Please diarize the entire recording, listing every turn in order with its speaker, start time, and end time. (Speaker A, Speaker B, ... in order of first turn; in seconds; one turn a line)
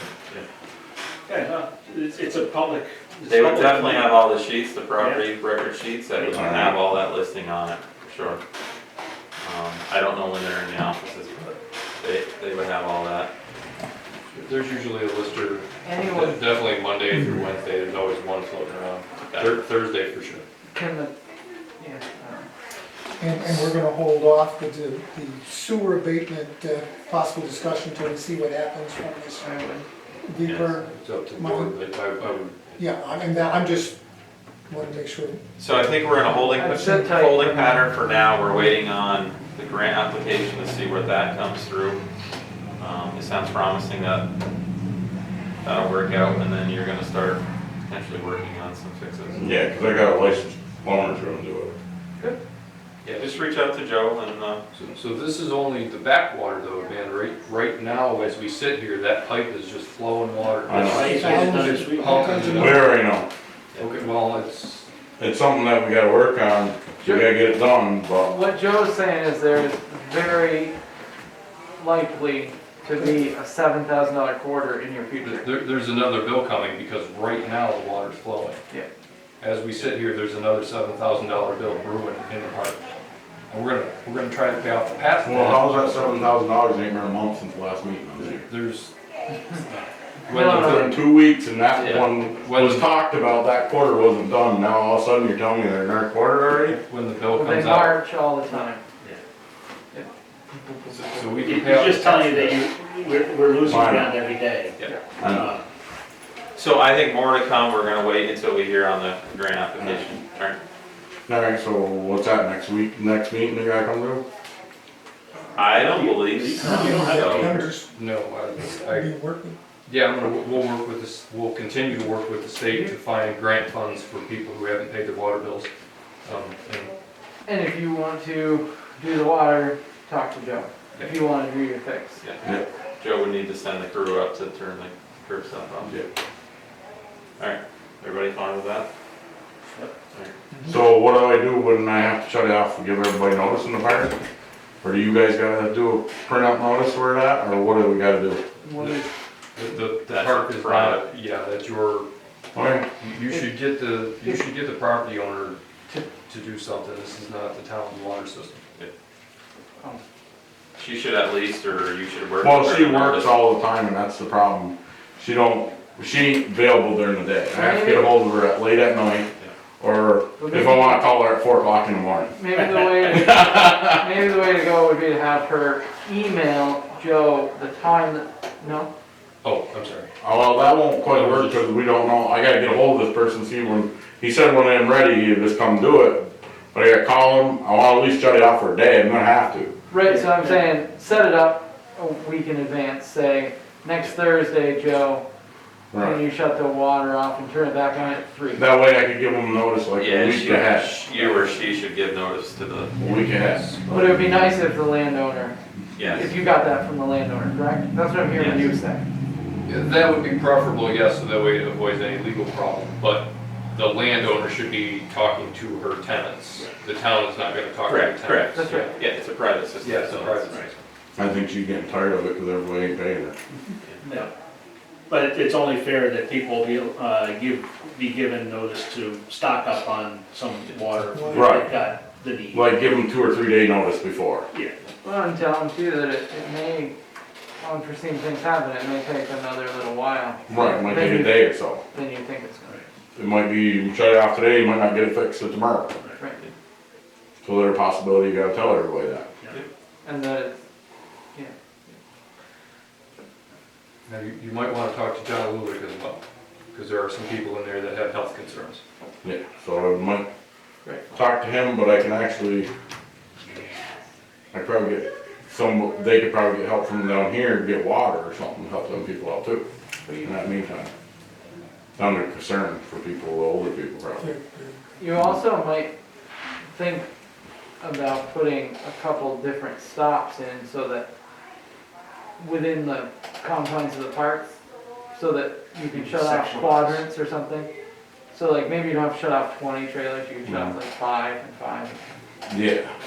Speaker A: 1.3-4.2
Speaker B: 3.3-8.4
Speaker A: 5.0-5.2
Speaker C: 6.3-6.7
Speaker B: 9.4-13.3
Speaker D: 14.3-20.4
Speaker E: 15.8-16.5
Speaker E: 20.7-21.1
Speaker E: 21.8-22.5
Speaker F: 23.2-29.6
Speaker E: 29.4-29.9
Speaker F: 30.2-31.7
Speaker B: 30.5-30.8
Speaker D: 30.9-32.8
Speaker F: 32.8-34.0
Speaker F: 34.7-35.4
Speaker B: 35.6-42.0
Speaker E: 36.6-37.9
Speaker B: 42.8-44.2
Speaker B: 45.6-49.4
Speaker C: 49.4-51.8
Speaker B: 53.0-54.6
Speaker D: 54.8-62.8
Speaker C: 60.7-61.3
Speaker A: 60.8-62.2
Speaker F: 61.1-62.8
Speaker C: 62.5-63.3
Speaker D: 63.8-64.9
Speaker C: 65.2-68.3
Speaker E: 67.0-67.3
Speaker E: 68.2-70.8
Speaker E: 71.8-75.5
Speaker D: 75.2-78.6
Speaker D: 79.4-82.8
Speaker D: 83.5-86.2
Speaker C: 85.2-88.5
Speaker D: 88.5-88.9
Speaker D: 90.3-90.9
Speaker E: 90.3-91.0
Speaker C: 90.4-96.8
Speaker B: 91.8-92.0
Speaker D: 92.3-92.8
Speaker D: 96.8-98.0
Speaker E: 97.3-98.8
Speaker E: 99.9-101.4
Speaker D: 100.9-102.6
Speaker A: 101.4-105.6
Speaker C: 103.7-104.1
Speaker C: 105.2-105.4
Speaker B: 106.5-110.6
Speaker C: 111.3-114.2
Speaker B: 115.5-117.6
Speaker A: 115.6-117.7
Speaker F: 116.6-117.9
Speaker D: 117.2-119.1
Speaker F: 118.6-119.6
Speaker D: 119.9-125.7
Speaker D: 126.2-126.9
Speaker E: 127.5-132.2
Speaker B: 132.2-135.9
Speaker B: 137.4-138.9
Speaker C: 140.7-144.2
Speaker C: 144.8-148.4
Speaker E: 148.6-149.1
Speaker D: 148.8-149.0
Speaker D: 149.6-152.1
Speaker B: 150.1-151.0
Speaker C: 152.6-152.9
Speaker D: 153.0-158.6
Speaker E: 153.3-153.6
Speaker E: 155.9-156.1
Speaker B: 160.8-163.3
Speaker C: 162.4-169.3
Speaker E: 167.5-168.2
Speaker C: 169.8-172.4
Speaker E: 170.4-171.1
Speaker E: 172.3-178.9
Speaker C: 172.9-174.1
Speaker D: 179.4-180.1
Speaker C: 180.2-189.7
Speaker D: 181.1-181.6
Speaker E: 189.9-195.2
Speaker A: 190.1-190.6
Speaker C: 195.9-196.2
Speaker E: 196.0-198.7
Speaker C: 198.6-201.0
Speaker B: 200.0-203.0
Speaker C: 203.0-203.7
Speaker D: 203.1-203.8
Speaker E: 203.8-209.1
Speaker B: 206.0-206.3
Speaker B: 208.4-208.8
Speaker D: 209.7-218.9
Speaker B: 217.9-220.7
Speaker E: 218.5-218.9
Speaker D: 219.8-220.8
Speaker C: 221.2-223.4
Speaker A: 224.0-224.3
Speaker A: 225.1-232.7
Speaker F: 231.2-231.5
Speaker C: 231.3-231.7
Speaker C: 232.5-234.5
Speaker E: 235.0-236.9
Speaker E: 237.6-242.8
Speaker C: 240.5-241.8
Speaker C: 243.2-245.9
Speaker C: 247.4-249.3
Speaker E: 250.0-250.6
Speaker E: 251.3-252.0
Speaker D: 254.1-256.2
Speaker D: 256.7-258.8
Speaker C: 259.2-260.3
Speaker C: 261.1-262.7
Speaker C: 264.5-270.9
Speaker C: 272.0-274.3
Speaker F: 274.2-275.0
Speaker E: 275.0-275.9
Speaker E: 276.7-277.1
Speaker E: 277.8-281.1
Speaker E: 282.4-284.6
Speaker E: 285.1-287.7
Speaker A: 285.9-287.0
Speaker E: 288.3-292.0
Speaker C: 290.4-290.7
Speaker C: 292.5-292.9